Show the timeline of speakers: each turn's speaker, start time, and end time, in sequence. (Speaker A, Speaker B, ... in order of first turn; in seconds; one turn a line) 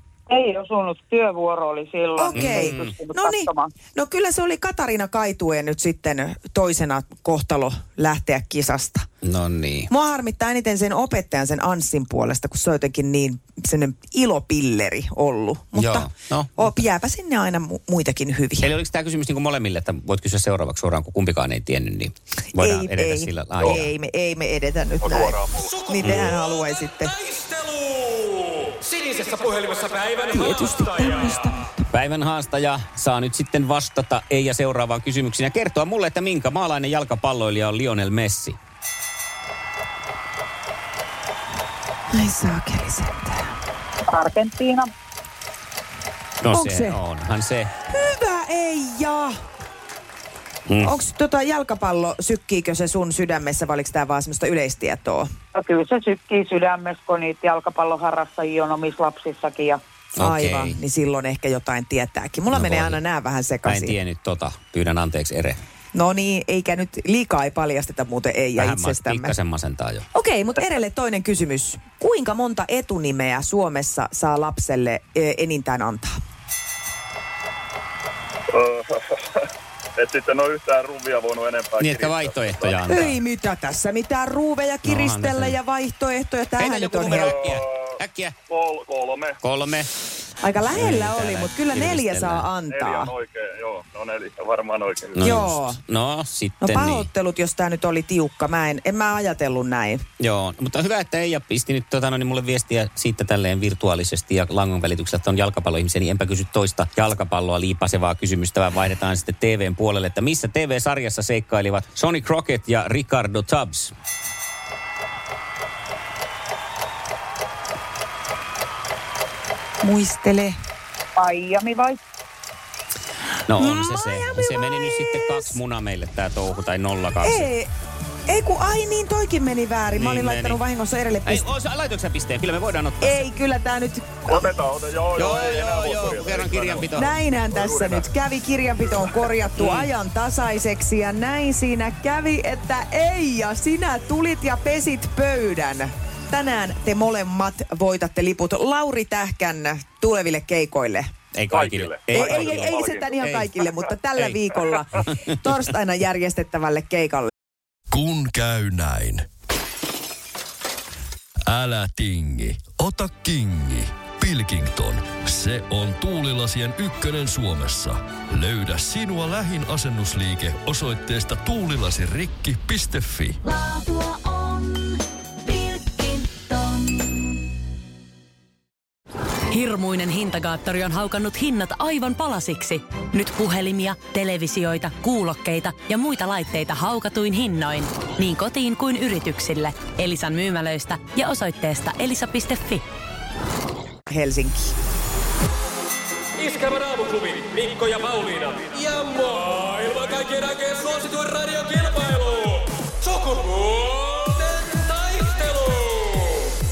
Speaker A: 0.3-3.7
Speaker B: 2.1-9.1
Speaker C: 2.3-2.9
Speaker C: 9.2-9.9
Speaker B: 9.9-18.7
Speaker C: 15.8-16.8
Speaker C: 18.6-23.9
Speaker B: 22.6-27.2
Speaker D: 25.0-25.8
Speaker C: 26.0-26.3
Speaker B: 30.2-31.8
Speaker C: 31.9-38.6
Speaker B: 42.1-43.5
Speaker A: 44.1-44.9
Speaker C: 46.4-47.7
Speaker B: 46.5-47.0
Speaker B: 47.9-49.3
Speaker C: 50.7-51.0
Speaker B: 50.8-55.3
Speaker A: 55.5-59.8
Speaker C: 60.2-60.8
Speaker B: 60.2-64.0
Speaker C: 62.5-63.0
Speaker C: 63.6-65.6
Speaker B: 65.9-69.3
Speaker C: 68.5-70.0
Speaker B: 70.1-76.1
Speaker D: 78.5-79.4
Speaker D: 80.0-82.8
Speaker C: 81.8-83.2
Speaker B: 82.9-87.4
Speaker C: 84.8-85.6
Speaker C: 86.6-88.3
Speaker D: 87.1-87.9
Speaker D: 88.5-89.4
Speaker C: 89.4-89.9
Speaker B: 90.4-93.1
Speaker C: 90.7-92.5
Speaker D: 92.7-95.4
Speaker C: 95.1-97.1
Speaker B: 95.2-95.8
Speaker B: 96.6-100.0
Speaker C: 100.2-113.9
Speaker B: 119.8-120.5
Speaker A: 121.2-122.0
Speaker C: 123.5-127.5
Speaker B: 123.5-125.5
Speaker B: 127.2-127.7
Speaker B: 128.3-131.4
Speaker C: 129.9-130.6
Speaker C: 131.2-133.2
Speaker B: 133.0-134.5
Speaker D: 134.3-138.1
Speaker C: 135.1-137.1
Speaker B: 136.9-151.1
Speaker C: 139.5-139.9
Speaker C: 151.3-153.5
Speaker D: 151.5-153.9
Speaker B: 152.1-157.3
Speaker E: 157.9-159.3
Speaker E: 161.5-173.4
Speaker F: 173.4-177.0
Speaker F: 179.5-192.8
Speaker B: 194.1-194.7
Speaker G: 196.7-200.6
Speaker G: 201.3-202.1